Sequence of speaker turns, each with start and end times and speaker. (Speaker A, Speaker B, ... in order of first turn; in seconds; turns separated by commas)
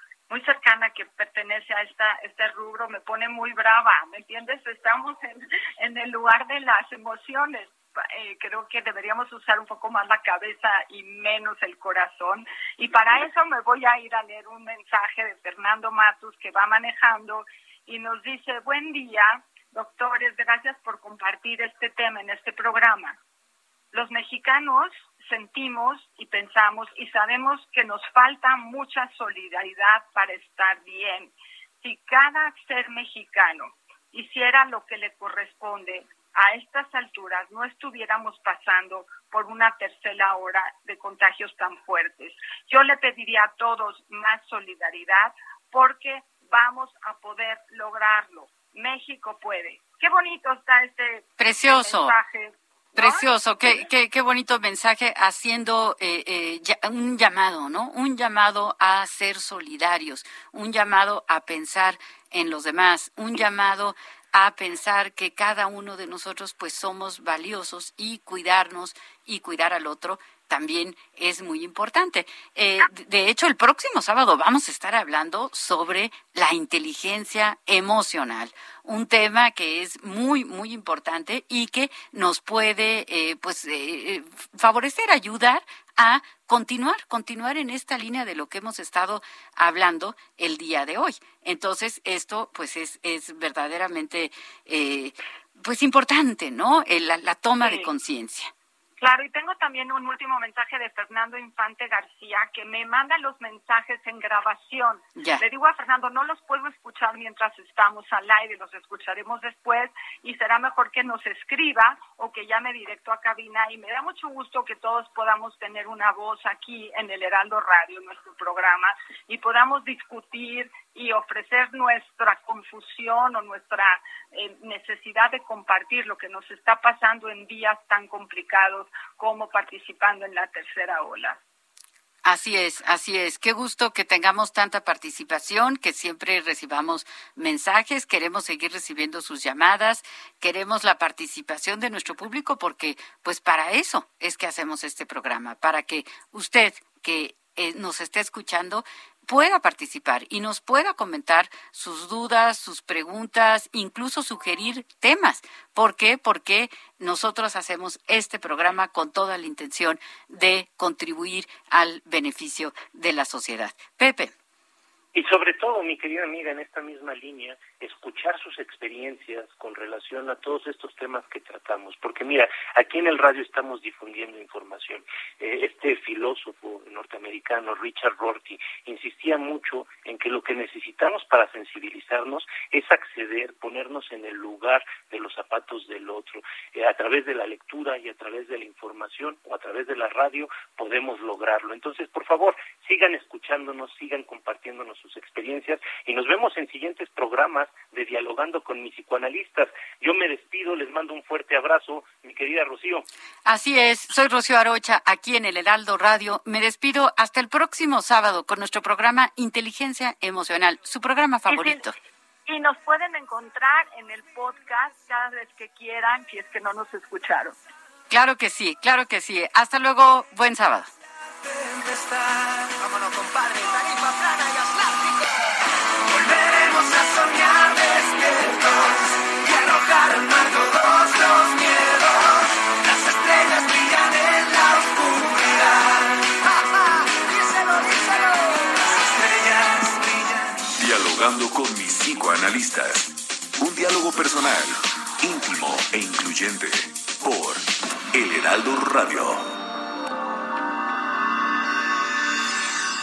Speaker A: 0.3-23.2, Speaker A: 23.9-53.3, Speaker B: 51.4-52.2, Speaker B: 53.0-98.5, Speaker A: 97.6-97.9, Speaker A: 99.0-131.4, Speaker B: 105.2-105.4, Speaker B: 132.2-164.3, Speaker C: 165.1-203.1, Speaker B: 203.5-211.9, Speaker A: 211.5-211.8, Speaker A: 212.5-217.6, Speaker B: 218.1-220.9, Speaker D: 221.4-240.6, Speaker E: 240.8-249.6